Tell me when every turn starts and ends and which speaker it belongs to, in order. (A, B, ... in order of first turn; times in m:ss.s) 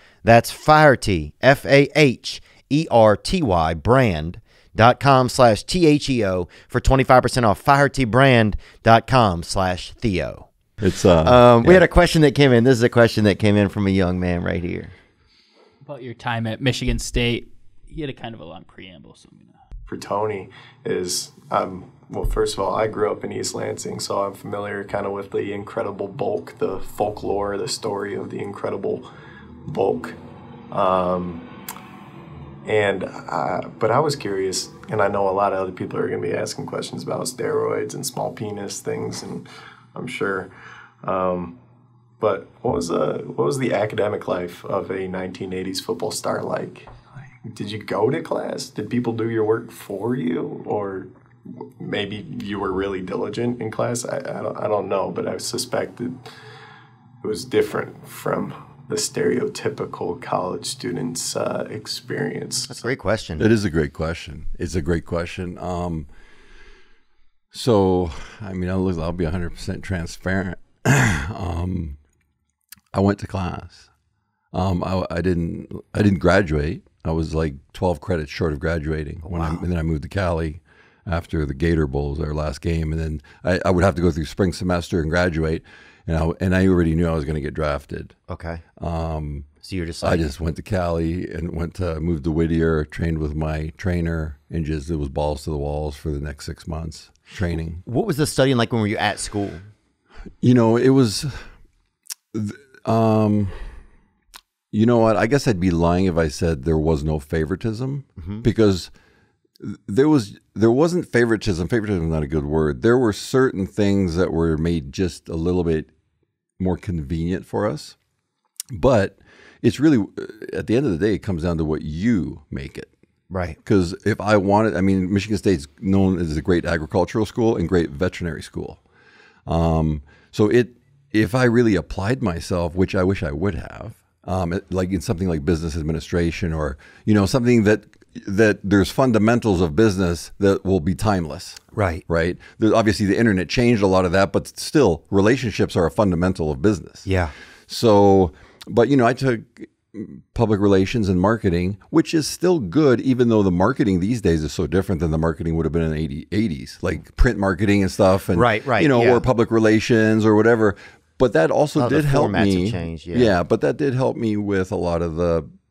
0:00.2-0:10.5 A
0:10.8-0:11.8 B
0:11.2-0:14.9 A
0:15.8-0:19.6 C
0:19.9-0:29.1 D
0:29.7-0:30.2 D
0:30.7-0:31.4 D
0:32.6-0:40.5 D
0:41.0-0:41.6 D
0:42.2-0:46.9 D
0:47.4-0:51.1 D
0:51.6-0:56.3 D
0:57.2-1:02.7 D
1:02.7-1:03.5 A
1:03.4-1:06.1 B
1:07.5-1:12.0 B
1:12.9-1:13.9 B
1:14.5-1:28.2 B
1:19.2-1:19.6 A
1:28.3-1:28.6 A
1:28.8-1:29.5 B
1:29.6-1:30.3 A
1:30.0-1:37.8 B
1:37.8-1:39.6 A
1:40.4-1:41.4 B
1:42.3-1:43.6 B
1:44.7-1:48.9 B
1:48.2-1:48.4 A
1:49.6-1:55.9 B
1:56.6-1:58.0 B
1:58.7-2:02.9 B
2:03.3-2:03.6 A
2:03.6-2:08.8 B
2:09.4-2:27.0 B
2:21.7-2:22.0 A
2:27.0-2:27.3 A
2:27.7-2:45.5 B
2:38.4-2:39.2 A
2:41.8-2:43.3 A